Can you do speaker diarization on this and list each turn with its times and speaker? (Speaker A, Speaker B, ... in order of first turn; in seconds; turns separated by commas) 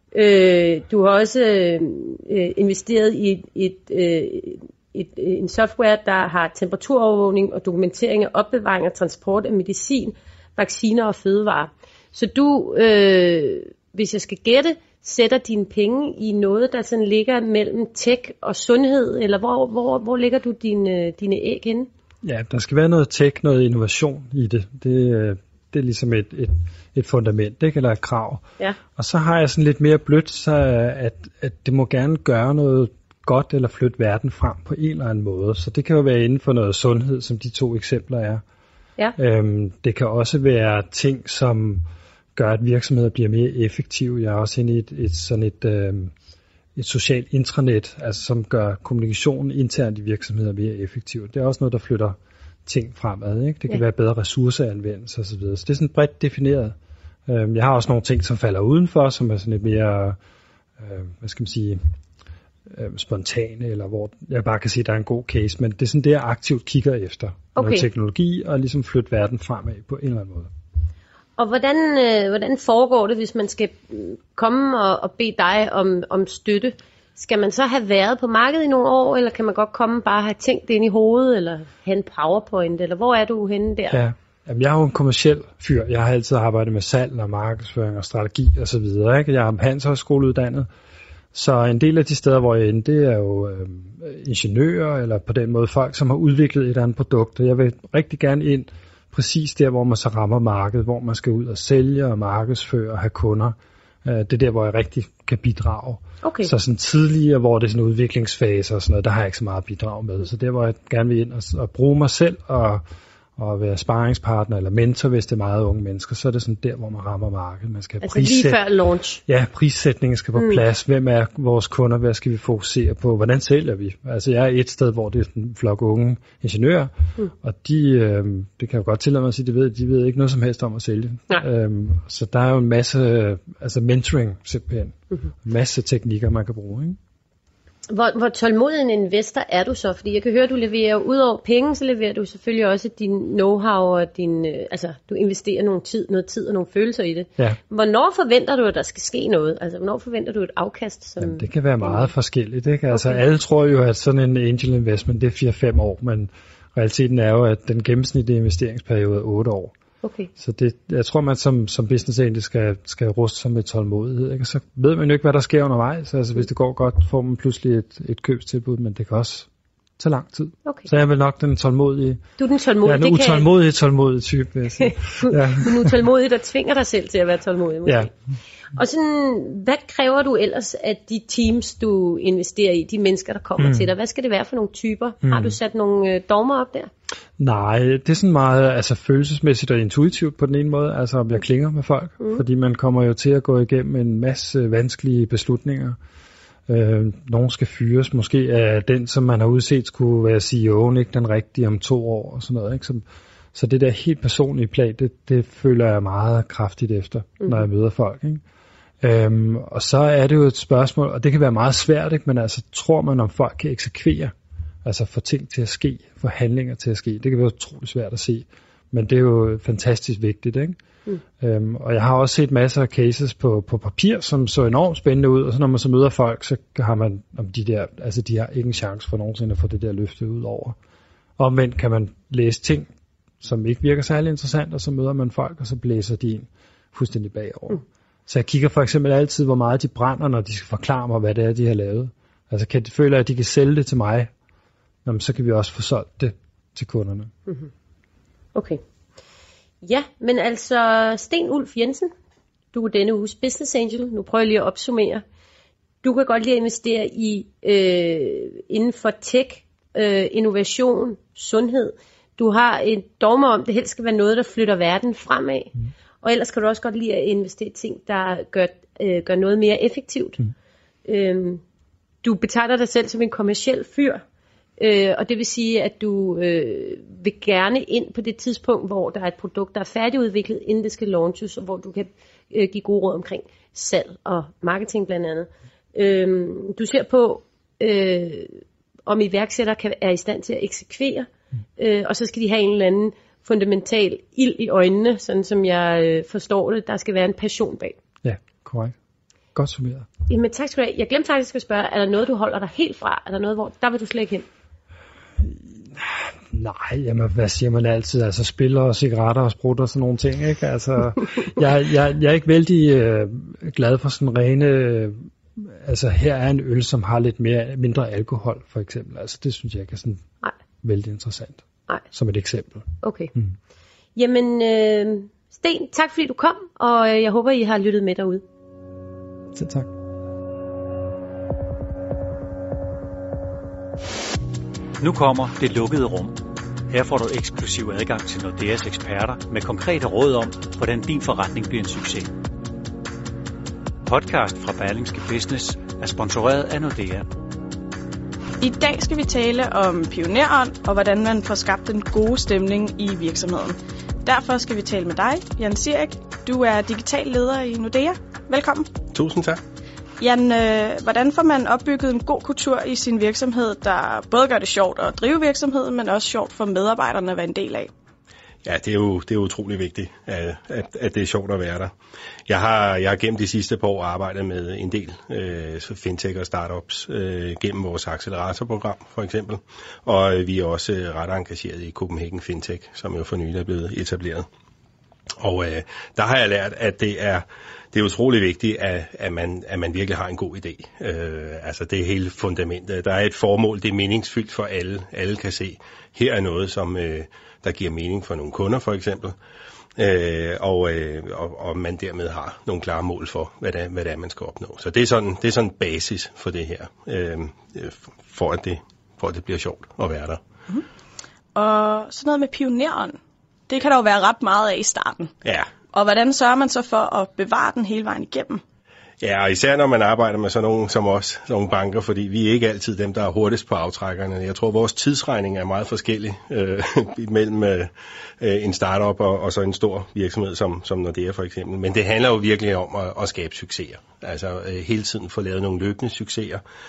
Speaker A: 0.1-21.9, Speaker B: 22.2-28.4, Speaker B: 29.0-38.4, Speaker B: 39.2-41.8, Speaker B: 42.4-46.1, Speaker B: 46.8-56.8, Speaker B: 57.3-60.2, Speaker B: 60.8-61.8, Speaker B: 62.7-70.5, Speaker A: 67.6-67.9, Speaker A: 71.4-84.0, Speaker B: 83.9-90.7, Speaker B: 91.3-112.8, Speaker A: 106.2-106.5, Speaker B: 113.4-118.6, Speaker A: 118.0-119.2, Speaker B: 119.3-126.9, Speaker B: 127.4-137.0, Speaker A: 137.9-152.1, Speaker B: 151.2-159.7, Speaker A: 152.9-153.2, Speaker A: 160.0-160.3, Speaker B: 160.4-169.5, Speaker B: 170.0-172.2, Speaker A: 172.4-173.5, Speaker B: 172.8-175.9, Speaker A: 174.9-178.1, Speaker A: 178.8-186.9, Speaker B: 183.6-183.9, Speaker B: 185.2-185.6, Speaker B: 187.4-196.0, Speaker B: 196.7-208.4, Speaker B: 209.0-214.3, Speaker B: 214.8-220.8, Speaker B: 221.4-230.8, Speaker B: 231.4-232.9, Speaker B: 233.4-244.3, Speaker B: 245.1-247.3, Speaker A: 248.6-248.8, Speaker A: 249.8-252.1, Speaker A: 252.7-255.2, Speaker A: 256.0-270.4, Speaker A: 271.1-271.6, Speaker A: 272.2-274.2, Speaker A: 274.8-298.0, Speaker B: 298.2-298.9, Speaker B: 299.6-300.1, Speaker A: 300.3-304.5, Speaker B: 305.4-320.2, Speaker B: 320.8-323.5, Speaker A: 323.0-323.3, Speaker A: 324.2-328.4, Speaker B: 329.6-329.9, Speaker C: 335.0-342.4, Speaker C: 344.1-347.3, Speaker D: 348.6-358.9, Speaker E: 359.1-359.6, Speaker D: 360.2-367.9, Speaker E: 368.6-371.9, Speaker E: 372.5-384.5, Speaker E: 385.4-399.4, Speaker E: 400.0-410.4, Speaker D: 411.6-415.3, Speaker E: 415.4-415.7, Speaker D: 415.9-418.6, Speaker E: 419.2-436.6